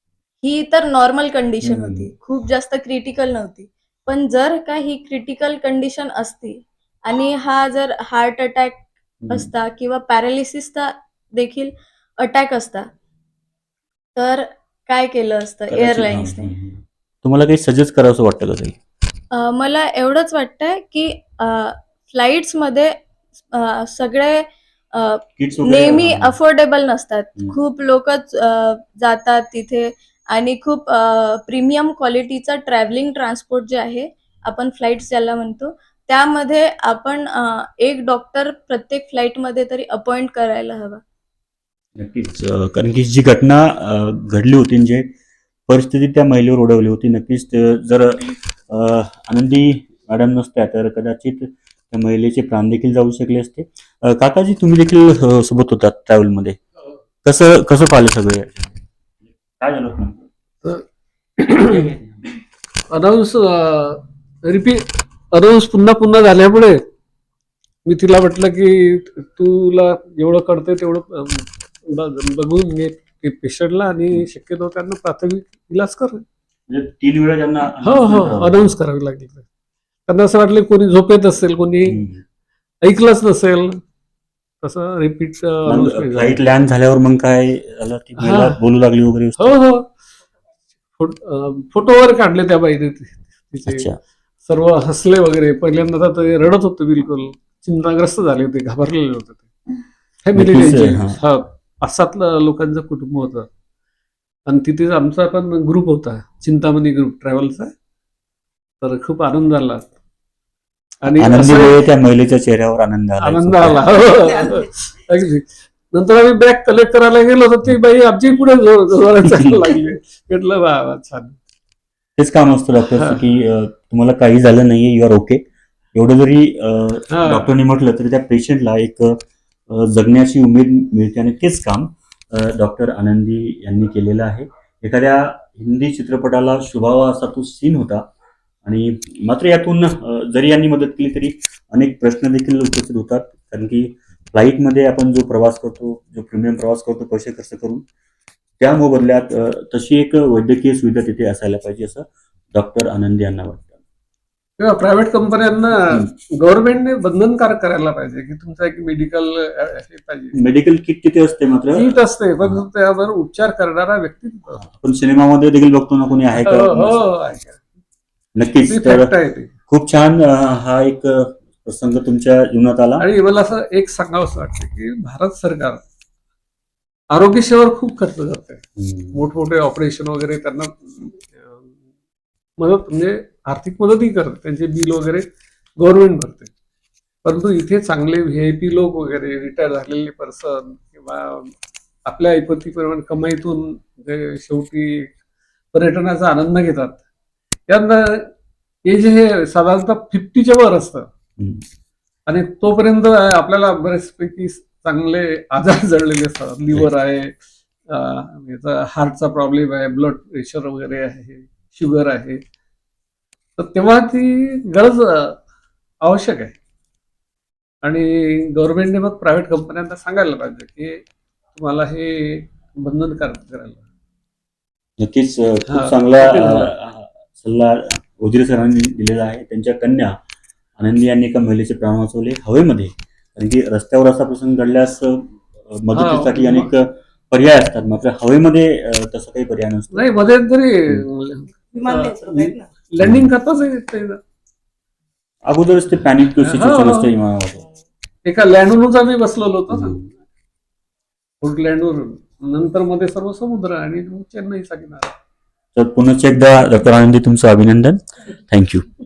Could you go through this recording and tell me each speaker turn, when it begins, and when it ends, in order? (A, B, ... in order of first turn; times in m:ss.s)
0:00.4-0:12.9 A
0:01.6-0:02.1 B
0:09.2-0:09.5 B
0:14.2-0:16.5 A
0:15.7-0:18.8 B
0:19.3-0:22.9 A
0:23.5-0:41.0 A
0:25.4-0:26.4 B
0:42.0-0:45.1 B
0:45.7-0:56.6 B
0:57.2-0:58.8 B
0:59.6-1:00.2 B
1:01.4-1:01.9 C
1:01.6-1:02.2 B
1:02.9-1:06.8 C
1:07.8-1:16.2 C
1:16.7-1:18.7 B
1:17.8-1:19.4 C
1:20.1-1:22.0 C
1:21.9-1:22.2 B
1:22.8-1:23.8 C
1:24.6-1:26.4 C
1:25.7-1:29.6 B
1:28.2-1:28.6 C
1:29.4-1:29.9 C
1:31.0-1:33.8 C
1:33.7-1:34.0 B
1:34.5-1:39.5 C
1:40.2-1:43.5 C
1:40.4-1:41.2 B
1:44.5-1:47.7 C
1:48.8-1:50.0 C
1:51.0-1:51.8 C
1:51.1-1:53.9 B
1:53.2-2:01.4 C
2:02.2-2:05.4 B
2:02.9-2:03.2 C
2:05.9-2:18.1 B
2:07.1-2:07.5 C
2:18.6-2:27.8 B
2:28.6-2:33.8 B
2:34.6-2:40.4 C
2:40.4-2:42.6 B
2:41.8-2:44.6 C
2:44.6-2:47.1 B
2:46.4-2:47.6 C
2:48.4-2:49.1 B
2:48.6-2:49.5 C
2:49.7-2:53.0 B
2:53.0-2:55.8 C
2:57.1-3:01.7 C
2:58.8-2:59.2 B
3:02.6-3:05.2 C
3:05.8-3:06.5 C
3:07.2-3:11.5 C
3:12.1-3:15.1 C
3:15.7-3:17.0 C
3:17.7-3:18.3 C
3:18.9-3:21.1 C
3:21.4-3:21.6 B
3:22.3-3:27.4 C
3:27.9-3:32.4 C
3:33.6-3:35.4 C
3:36.0-3:36.6 C
3:37.8-3:41.0 C
3:41.5-3:43.8 C
3:45.0-3:50.2 B
3:45.7-3:46.7 C
3:50.8-4:00.1 B
3:55.9-3:56.7 C
3:59.9-4:04.2 C
4:03.0-4:03.3 B
4:05.5-4:07.6 B
4:06.4-4:07.1 C
4:08.2-4:10.1 C
4:09.7-4:10.0 B
4:11.4-4:15.1 C
4:15.8-4:18.9 B